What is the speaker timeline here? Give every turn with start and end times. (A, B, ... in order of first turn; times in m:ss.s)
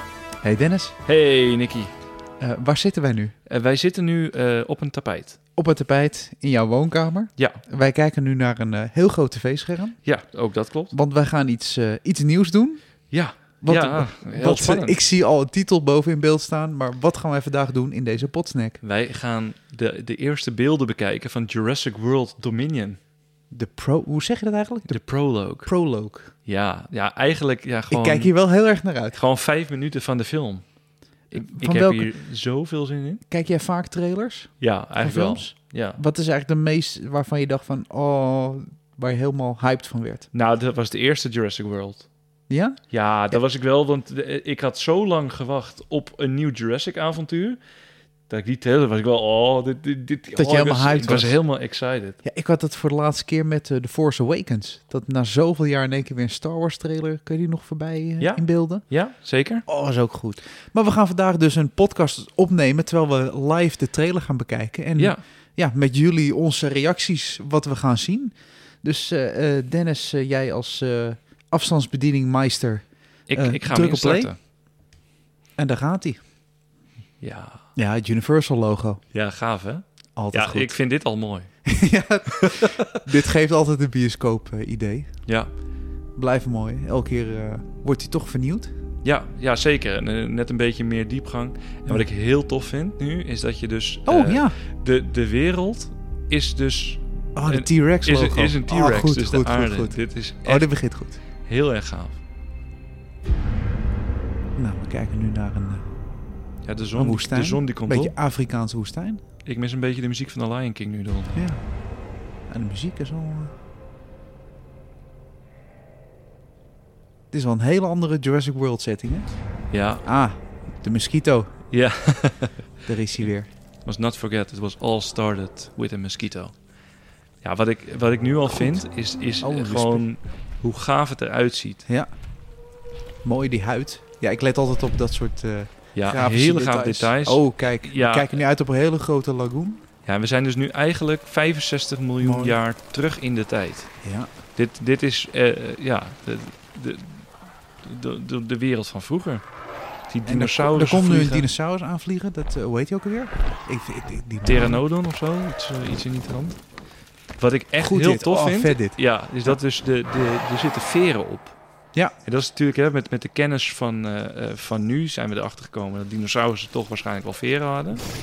0:00.4-0:01.0 A
0:01.0-0:01.9 B
0:02.4-0:03.3 A
0:03.5-0:05.4 B
0:05.6-0:10.0 A
0:10.0-0:10.9 B
0:10.9-0:12.8 A
0:13.1-0:15.0 B
0:13.6-0:18.8 A
0:18.8-0:23.0 B
0:23.5-0:26.3 A
0:24.9-0:25.7 B
0:26.4-0:28.3 B
0:27.9-0:29.2 A
0:29.1-0:30.8 B
0:31.3-0:32.1 A
0:31.3-0:33.2 B
0:33.3-0:40.3 A
0:34.6-0:36.0 B
0:40.3-0:42.1 B
0:42.5-0:43.4 A
0:42.9-0:47.6 B
0:48.3-0:52.2 B
0:50.4-0:51.4 A
0:52.2-0:58.8 A
0:58.2-0:59.6 B
0:59.7-1:14.3 A
1:05.0-1:05.2 B
1:13.3-1:14.4 B
1:15.6-1:16.2 A
1:17.2-1:17.6 B
1:17.8-1:19.0 A
1:19.1-1:21.5 B
1:20.2-1:20.7 A
1:21.7-1:25.1 A
1:22.4-1:22.7 B
1:26.2-1:28.7 A
1:29.0-1:40.7 B
1:34.1-1:34.6 A
1:37.4-1:41.2 A
1:41.5-1:42.2 B
1:44.6-1:45.8 A
1:46.6-1:48.1 B
1:47.0-1:49.2 A
1:49.4-1:51.4 B
1:51.4-1:51.6 A
1:52.5-1:53.5 A
1:57.3-1:59.3 A
1:59.7-2:00.0 B
2:00.0-2:01.5 A
2:01.7-2:03.3 B
2:02.9-2:03.5 A
2:03.8-2:06.5 B
2:07.4-2:11.8 B
2:08.5-2:08.8 A
2:09.4-2:10.0 A
2:13.2-2:19.8 A
2:16.0-2:18.4 B
2:20.1-2:23.9 B
2:22.2-2:22.6 A
2:24.0-2:24.3 A
2:24.6-2:27.3 B
2:27.8-2:29.4 B
2:30.1-2:31.5 B
2:30.3-2:34.8 A
2:34.4-2:36.6 B
2:37.4-2:41.6 B
2:37.8-2:39.6 A
2:42.2-2:48.0 B